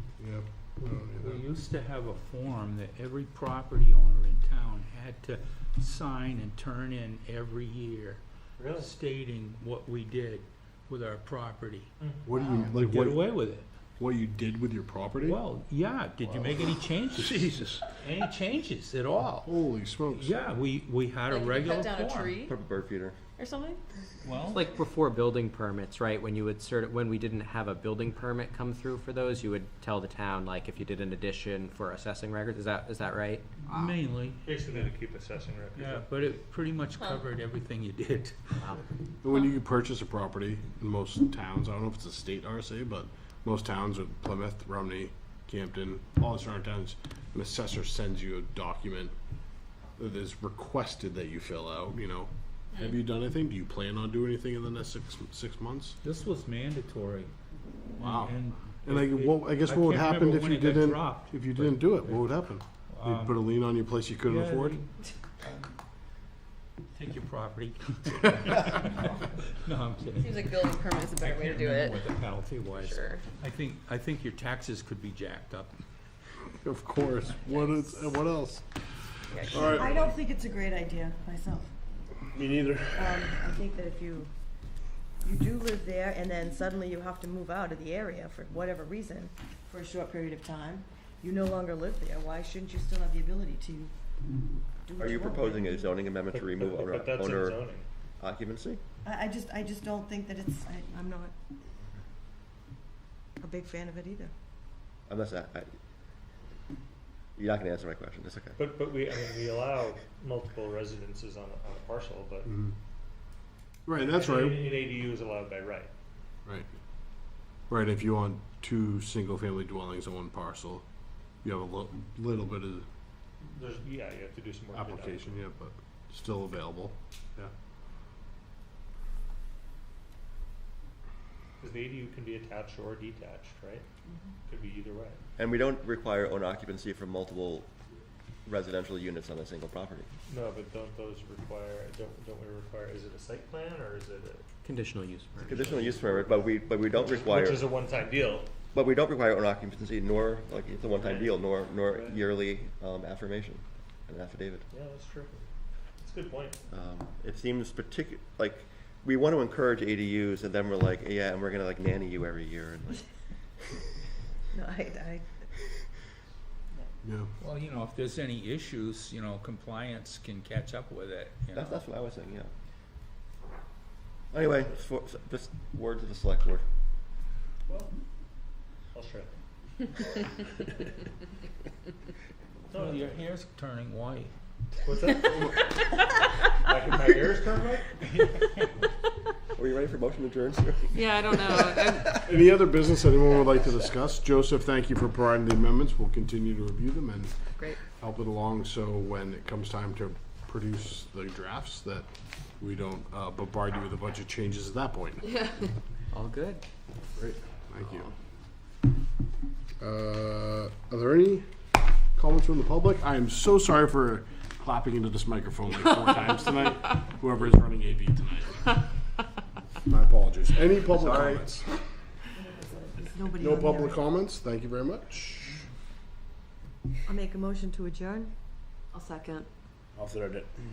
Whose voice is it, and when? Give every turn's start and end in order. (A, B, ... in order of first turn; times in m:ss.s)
0:00.2-0:01.4 A
0:00.8-0:08.2 B
0:08.6-0:08.9 C
0:08.8-0:11.9 B
0:12.0-0:12.3 C
0:12.3-0:13.3 A
0:12.7-0:13.7 B
0:14.0-0:15.4 A
0:15.2-0:19.5 B
0:16.3-0:17.8 A
0:18.0-0:18.3 C
0:19.4-0:20.4 A
0:20.1-0:22.4 B
0:21.3-0:22.6 D
0:22.5-0:23.2 E
0:23.4-0:23.8 D
0:24.2-0:24.6 B
0:24.5-0:33.5 F
0:33.7-0:34.9 B
0:34.4-0:36.1 C
0:35.7-0:38.4 B
0:37.0-0:37.2 D
0:39.2-0:49.1 A
0:50.0-0:56.0 A
0:56.0-0:57.3 B
0:58.0-1:02.2 B
0:58.0-1:04.8 A
1:02.9-1:03.4 B
1:04.3-1:05.8 B
1:06.9-1:15.7 B
1:10.2-1:12.1 D
1:12.7-1:13.2 D
1:16.5-1:18.6 A
1:19.3-1:19.8 D
1:19.5-1:20.0 A
1:19.6-1:21.7 G
1:22.3-1:23.4 A
1:22.9-1:24.3 G
1:25.2-1:33.9 G
1:34.9-1:35.9 G
1:35.0-1:37.6 E
1:36.3-1:37.9 C
1:38.2-1:38.8 E
1:39.0-1:41.3 G
1:43.4-1:44.3 G
1:45.1-1:45.7 E
1:47.4-1:48.6 E
1:48.6-1:52.5 C
1:53.9-1:54.7 A
1:54.0-1:55.9 C
1:57.7-2:00.8 A
2:01.4-2:02.8 A
2:03.5-2:05.4 C
2:04.7-2:07.5 A
2:11.6-2:13.9 C
2:14.5-2:15.2 C
2:15.4-2:17.7 E
2:18.5-2:20.1 E
2:20.3-2:24.4 C
2:24.6-2:25.6 F
2:25.4-2:27.7 E
2:25.6-2:26.3 C
2:26.9-2:28.5 C
2:28.7-2:34.6 E
2:30.9-2:32.2 C
2:34.7-2:35.5 C
2:36.0-2:36.6 C
2:36.7-2:43.1 E
2:44.5-2:45.4 G
2:47.0-2:47.3 A
2:47.4-2:51.8 B
2:51.5-2:52.5 E
2:54.3-2:56.6 E
2:58.9-2:59.4 C
3:02.7-3:03.1 C
3:02.7-3:04.3 B
3:04.8-3:05.7 C
3:06.6-3:07.9 C
3:08.1-3:08.7 B
3:09.5-3:12.3 E
3:10.9-3:12.1 D
3:12.2-3:17.4 A
3:18.0-3:22.1 A
3:22.6-3:25.4 A
3:26.1-3:26.6 F
3:27.2-3:28.1 A
3:29.8-3:31.5 A
3:32.2-3:38.8 A
3:39.8-3:41.7 A
3:40.9-3:41.6 E
3:42.4-3:44.0 G
3:43.4-3:45.6 A
3:47.1-3:48.3 G
3:48.9-3:49.5 G
3:49.9-3:50.5 A